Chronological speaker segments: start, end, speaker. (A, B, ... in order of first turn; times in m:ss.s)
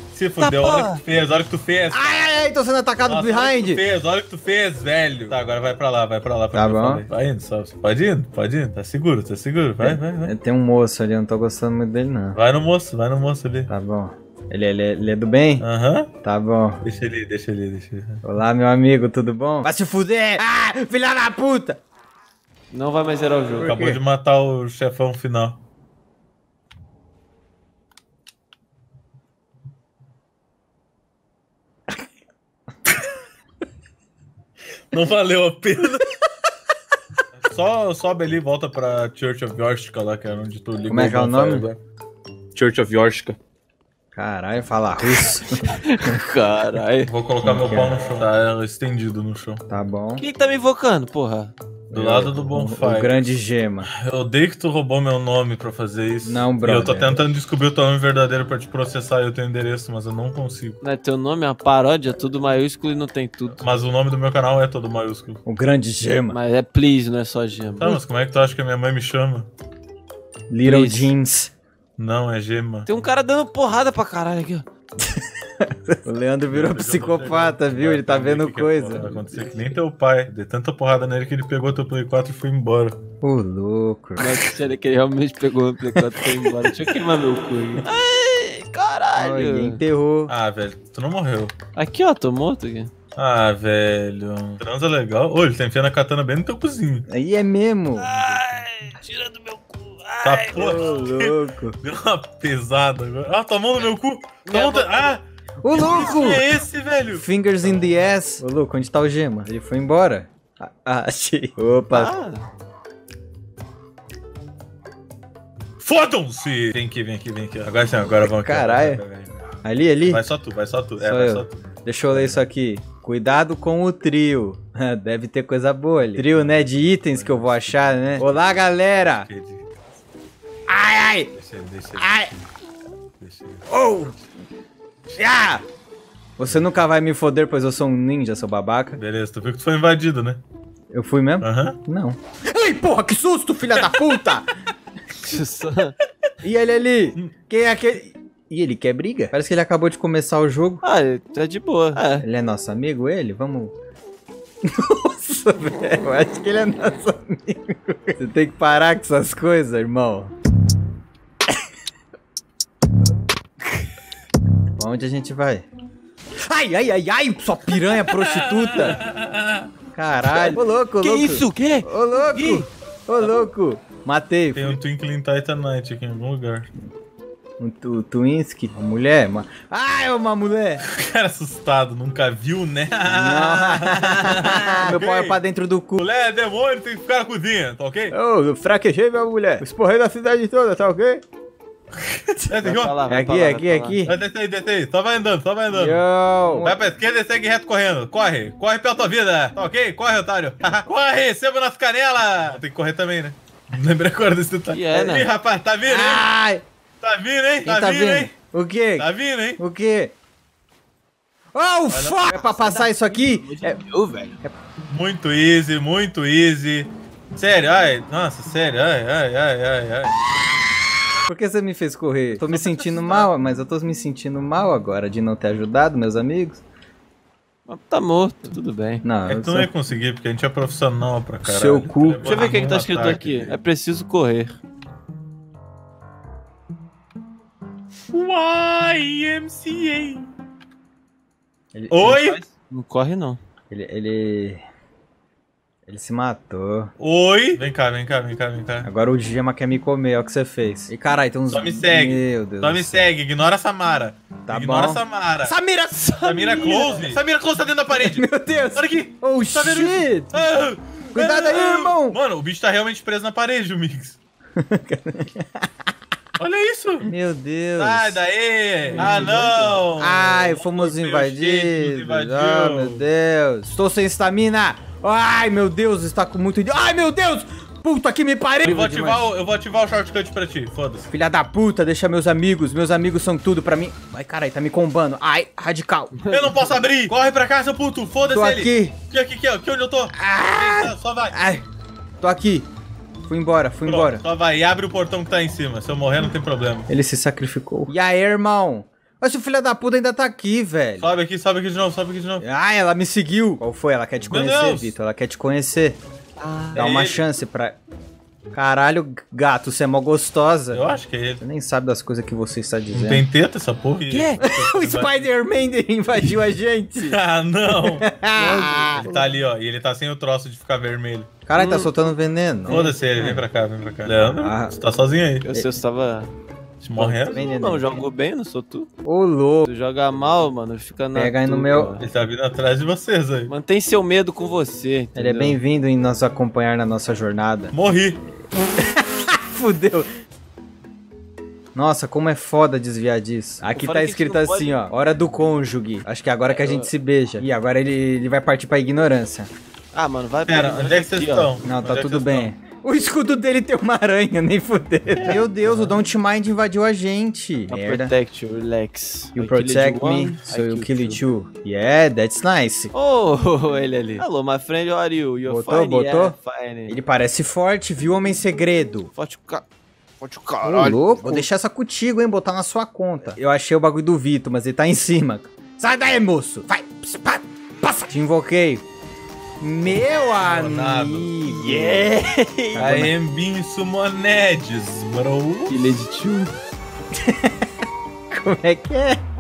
0:00.1-0:02.2 A
0:00.4-0:01.0 B
0:01.9-0:03.8 C
0:03.0-0:10.3 A
0:06.5-0:07.1 C
0:09.8-0:12.4 C
0:12.3-0:13.7 A
0:13.7-0:15.6 C
0:15.6-0:16.1 A
0:16.2-0:16.8 C
0:16.8-0:18.2 A
0:18.2-0:21.8 C
0:22.7-0:23.8 B
0:23.6-0:24.0 C
0:23.6-0:25.6 A
0:34.9-0:36.0 A
0:37.4-0:41.8 A
0:40.9-0:41.7 C
0:42.5-0:43.4 A
0:44.1-0:45.7 C
0:45.7-0:47.1 B
0:47.0-0:49.6 A
0:47.4-0:48.0 C
0:49.7-0:50.2 C
0:50.2-0:51.5 B
0:51.9-0:53.9 C
0:51.9-1:00.8 A
0:56.2-0:57.2 C
1:00.8-1:03.6 B
1:03.6-1:05.4 A
1:05.4-1:06.4 C
1:06.3-1:08.0 B
1:07.8-1:09.5 A
1:10.5-1:11.5 C
1:10.6-1:11.1 B
1:12.0-1:12.9 A
1:12.8-1:14.6 B
1:15.1-1:19.4 C
1:16.5-1:23.0 A
1:23.2-1:24.3 C
1:24.2-1:29.8 B
1:29.2-1:30.3 C
1:30.3-1:31.5 A
1:31.8-1:32.9 B
1:33.2-1:37.0 A
1:37.1-1:38.1 C
1:38.0-1:41.1 B
1:40.2-1:48.0 A
1:40.5-1:41.8 C
1:44.4-1:45.1 B
1:45.6-1:46.4 C
1:47.1-1:52.1 C
1:51.9-1:52.4 B
1:55.8-1:59.5 A
1:58.1-1:59.0 C
1:59.6-2:00.2 C
2:00.0-2:02.4 A
2:01.0-2:09.3 C
2:06.2-2:08.4 A
2:09.0-2:09.7 A
2:10.7-2:11.3 C
2:11.3-2:12.4 A
2:12.0-2:12.3 C
2:13.2-2:14.2 A
2:13.7-2:14.1 C
2:15.2-2:15.6 C
2:16.4-2:19.0 C
2:16.4-2:16.7 A
2:19.0-2:20.4 A
2:20.9-2:24.5 C
2:21.4-2:21.8 A
2:23.7-2:24.2 A
2:25.2-2:26.0 B
2:26.4-2:30.8 C
2:30.8-2:32.2 B
2:32.2-2:33.7 C
2:34.6-2:40.3 C
2:44.8-2:45.6 C
2:46.4-2:49.0 C
2:47.9-2:49.7 A
2:49.9-2:54.8 C
2:50.3-2:52.7 B
2:54.5-2:56.7 A
2:57.6-3:00.8 C
3:00.8-3:05.4 A
3:03.1-3:06.0 C
3:06.0-3:08.1 A
3:08.1-3:11.2 C
3:12.5-3:13.0 A
3:12.5-3:14.0 B
3:13.1-3:14.1 C
3:14.0-3:16.0 A
3:15.7-3:16.8 C
3:16.6-3:26.3 A
3:24.7-3:25.3 B
3:25.8-3:26.6 C
3:27.0-3:28.3 A
3:27.6-3:29.1 C
3:29.0-3:29.6 A
3:29.6-3:30.1 C
3:31.5-3:33.8 C
3:31.9-3:32.2 A
3:32.3-3:34.4 B
3:34.9-3:40.1 A
3:41.3-3:46.6 C
3:42.4-3:43.3 A
3:47.7-3:49.0 B
3:49.0-3:49.7 C
3:49.3-3:53.6 A
3:51.4-3:52.5 C
3:52.2-3:54.6 B
3:58.1-4:00.3 A
4:01.7-4:02.2 C
4:01.9-4:02.4 A
4:02.1-4:03.4 B
4:03.7-4:04.6 C
4:05.9-4:06.9 C
4:07.0-4:08.9 A
4:08.8-4:13.1 C
4:11.5-4:15.5 A
4:14.5-4:17.2 C
4:16.2-4:24.2 A
4:16.6-4:16.9 B
4:17.9-4:20.3 C
4:21.1-4:22.2 C
4:24.6-4:25.7 C
4:26.4-4:27.1 A
4:27.0-4:28.2 C
4:27.8-4:33.0 A
4:29.0-4:29.3 C
4:29.0-4:29.8 B
4:30.0-4:39.2 C
4:38.6-4:41.1 A
4:41.0-4:46.1 C
4:46.2-4:46.7 B
4:46.3-4:51.4 A
4:48.3-4:49.0 C
4:50.2-4:51.6 C
4:52.2-4:52.7 C
4:53.3-4:54.2 C
4:53.8-4:56.9 A
4:56.9-5:01.1 C
5:01.0-5:02.4 A
5:02.4-5:06.0 C
5:04.3-5:05.0 A
5:06.4-5:06.9 B
5:06.7-5:07.2 A
5:06.7-5:07.8 C
5:08.5-5:10.8 C
5:10.7-5:11.4 A
5:11.4-5:13.2 C
5:12.9-5:15.2 A
5:14.1-5:14.4 B
5:14.4-5:19.1 C
5:17.0-5:18.1 A
5:18.3-5:19.3 B
5:19.0-5:21.3 A
5:21.5-5:23.3 C
5:21.5-5:21.9 B
5:22.7-5:25.4 A
5:24.3-5:24.7 C
5:25.4-5:26.3 B
5:26.8-5:27.4 A
5:26.9-5:28.9 B
5:27.3-5:28.0 C
5:29.0-5:29.7 C
5:29.6-5:32.1 B
5:31.1-5:32.0 C
5:32.0-5:33.5 A
5:33.5-5:35.6 B
5:35.1-5:37.7 C
5:37.7-5:38.2 A
5:38.8-5:40.1 C
5:41.7-5:49.5 C
5:43.7-5:44.9 B
5:46.4-5:46.9 B
5:49.9-5:51.6 B
5:50.5-5:52.5 A
5:51.6-5:58.1 C
5:55.1-5:56.0 B
5:57.7-6:01.2 B
5:59.3-6:02.9 C
6:02.9-6:06.9 B
6:05.4-6:06.4 C
6:06.9-6:09.1 C
6:09.1-6:09.6 B
6:10.2-6:11.5 B
6:10.6-6:18.8 C
6:19.6-6:22.2 C
6:20.3-6:21.3 A
6:21.4-6:22.9 B
6:22.7-6:23.1 C
6:22.8-6:25.8 A
6:25.7-6:26.5 B
6:27.2-6:27.5 C
6:28.3-6:29.2 C